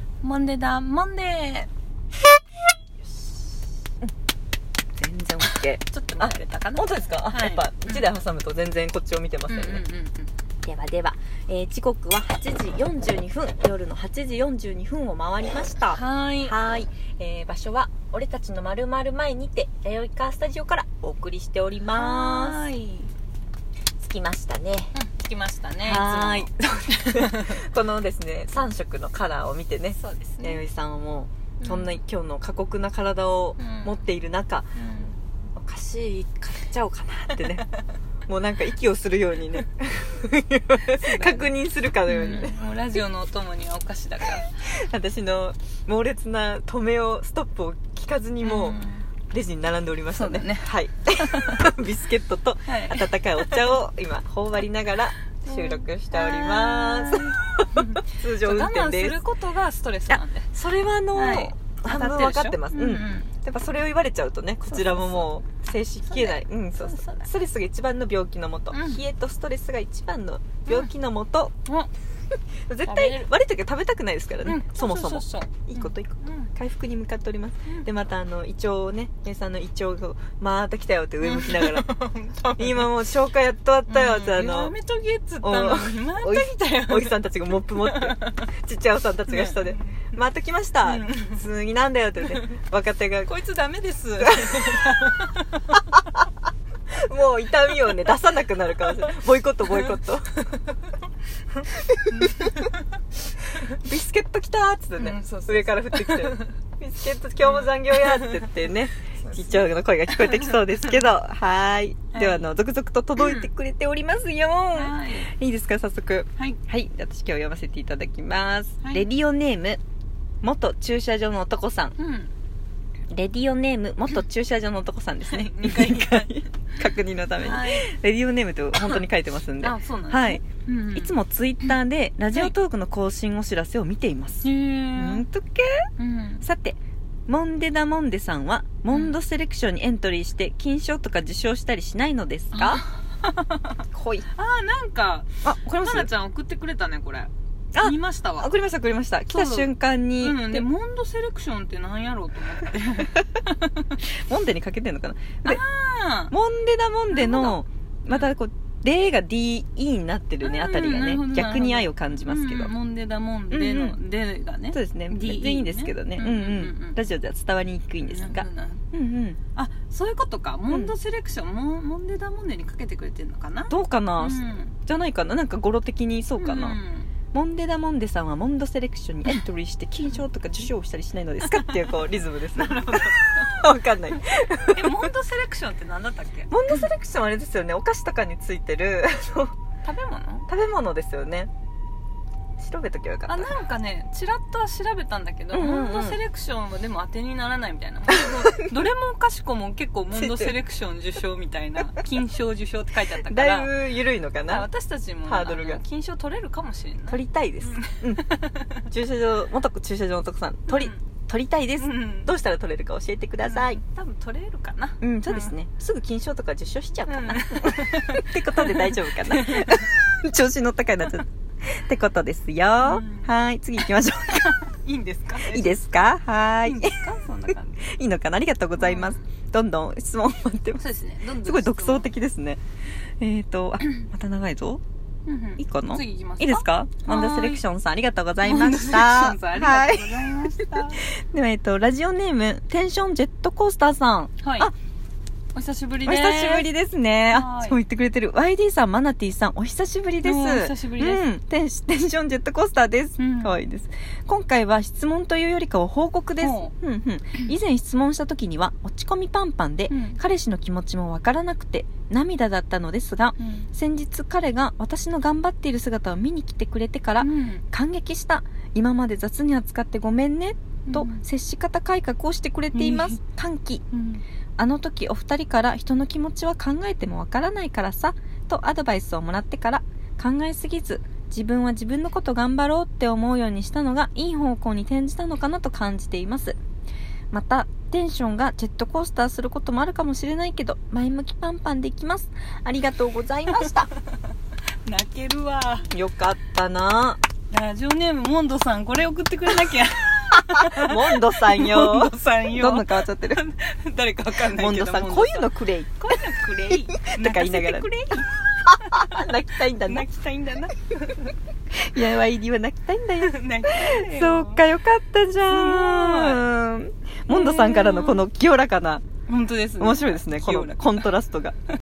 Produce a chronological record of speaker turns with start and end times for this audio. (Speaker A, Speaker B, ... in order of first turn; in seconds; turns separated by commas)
Speaker A: 0.2-1.7, Speaker B: 5.0-9.8, Speaker A: 5.5-8.1, Speaker A: 9.5-10.3, Speaker B: 10.6-22.6, Speaker A: 15.9-16.6, Speaker A: 21.9-23.1, Speaker B: 24.0-24.9, Speaker A: 24.9-27.6, Speaker B: 25.8-34.7, Speaker A: 29.9-30.6, Speaker A: 31.6-31.9, Speaker A: 33.6-34.0, Speaker A: 34.7-35.1, Speaker B: 35.5-37.7, Speaker B: 38.3-42.5, Speaker A: 40.9-41.5, Speaker A: 42.0-44.6, Speaker B: 44.5-59.2, Speaker A: 48.4-49.0, Speaker A: 50.1-51.6, Speaker A: 52.7-53.7, Speaker A: 55.4-60.5, Speaker B: 60.1-71.5, Speaker A: 61.1-63.3, Speaker A: 64.7-65.3, Speaker A: 66.1-67.3, Speaker A: 68.7-69.0, Speaker B: 72.7-81.9, Speaker A: 72.8-73.3, Speaker A: 74.4-76.5, Speaker A: 81.2-82.9, Speaker B: 82.6-84.7, Speaker A: 83.9-88.4, Speaker B: 85.4-93.3, Speaker A: 89.3-89.8, Speaker A: 90.8-91.4, Speaker A: 93.2-95.7, Speaker B: 94.2-94.9, Speaker B: 97.0-100.4, Speaker B: 101.7-102.6, Speaker A: 102.1-102.8, Speaker B: 103.6-119.8, Speaker A: 105.0-106.5, Speaker A: 107.4-108.5, Speaker A: 109.2-109.7, Speaker A: 110.2-110.6, Speaker A: 112.1-112.5, Speaker A: 113.2-113.5, Speaker A: 114.7-115.3, Speaker B: 120.4-122.0, Speaker A: 122.0-122.3, Speaker B: 123.1-135.9, Speaker A: 125.3-126.3, Speaker A: 127.4-127.9, Speaker A: 129.6-131.7, Speaker A: 134.4-135.2, Speaker A: 136.0-136.4, Speaker B: 136.4-142.8, Speaker A: 138.9-139.1, Speaker A: 142.5-143.8, Speaker B: 143.9-144.3, Speaker A: 144.3-148.5, Speaker B: 145.4-146.1, Speaker B: 147.7-150.7, Speaker A: 149.3-154.0, Speaker B: 154.2-155.6, Speaker A: 155.4-156.3, Speaker B: 156.3-162.7, Speaker A: 157.1-158.3, Speaker A: 160.4-167.0, Speaker B: 163.5-164.0, Speaker B: 164.7-169.4, Speaker A: 168.1-168.8, Speaker A: 169.6-174.7, Speaker B: 173.7-176.8, Speaker A: 176.4-177.1, Speaker B: 177.3-185.1, Speaker A: 181.4-182.0, Speaker A: 182.5-183.6, Speaker A: 184.7-186.8, Speaker B: 186.5-189.6, Speaker A: 189.8-190.5, Speaker B: 190.5-191.5, Speaker B: 192.6-193.6, Speaker A: 193.3-203.8, Speaker B: 195.5-196.2, Speaker B: 198.2-198.6, Speaker B: 200.1-200.5, Speaker B: 203.2-204.7, Speaker A: 204.4-208.8, Speaker B: 205.2-205.8, Speaker B: 207.1-208.3, Speaker B: 208.8-213.8, Speaker A: 210.7-211.0, Speaker A: 211.8-212.3, Speaker A: 213.4-215.5, Speaker B: 215.0-224.6, Speaker A: 217.1-219.9, Speaker A: 222.8-223.3, Speaker A: 224.6-225.8, Speaker B: 225.4-227.0, Speaker A: 226.6-227.8, Speaker B: 227.8-232.6, Speaker A: 228.8-229.2, Speaker A: 230.8-232.1, Speaker B: 233.2-234.8, Speaker A: 235.2-237.6, Speaker B: 235.6-244.7, Speaker A: 238.4-241.0, Speaker A: 244.4-244.7, Speaker A: 245.5-246.7, Speaker B: 246.1-273.8, Speaker A: 247.3-247.8, Speaker A: 250.2-251.2, Speaker A: 253.2-253.6, Speaker A: 256.4-256.7, Speaker A: 259.9-260.2, Speaker A: 263.4-263.7, Speaker A: 267.2-267.6, Speaker A: 270.9-271.2, Speaker A: 272.7-273.2, Speaker A: 273.9-274.2, Speaker B: 274.6-286.6, Speaker B: 287.3-293.9, Speaker A: 294.8-295.9, Speaker B: 295.9-297.2, Speaker A: 297.5-311.3, Speaker B: 300.7-303.4, Speaker B: 304.5-306.0, Speaker B: 306.7-307.9, Speaker B: 308.6-310.1, Speaker B: 311.7-319.1, Speaker A: 313.2-314.6, Speaker A: 315.5-316.5, Speaker A: 317.3-318.2, Speaker A: 319.3-321.1, Speaker B: 319.8-321.6